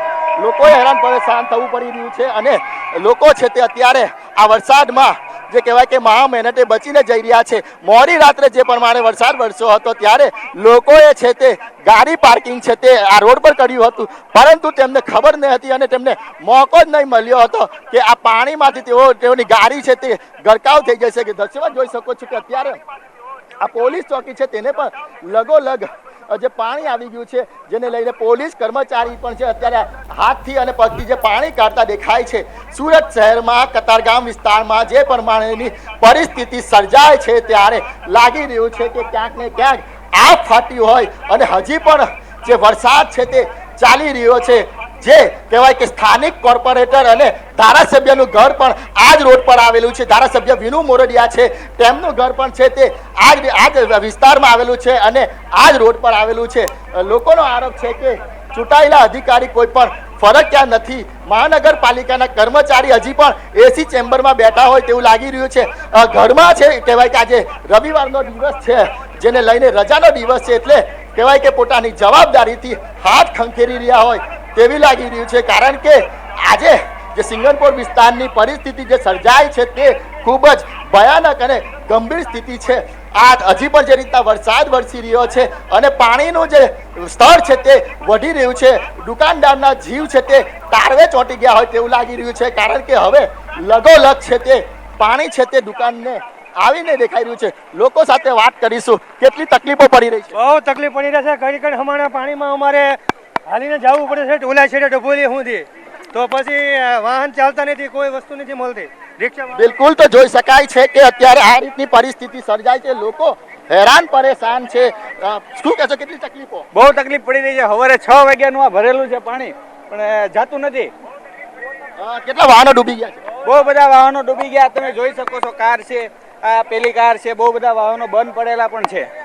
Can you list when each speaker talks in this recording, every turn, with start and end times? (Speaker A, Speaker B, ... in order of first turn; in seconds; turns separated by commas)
Speaker A: 0.4-22.8, Speaker A: 23.6-100.3, Speaker B: 100.4-103.0, Speaker B: 103.5-109.5, Speaker A: 109.5-116.7, Speaker C: 116.7-120.9, Speaker A: 122.0-123.2, Speaker C: 123.4-129.1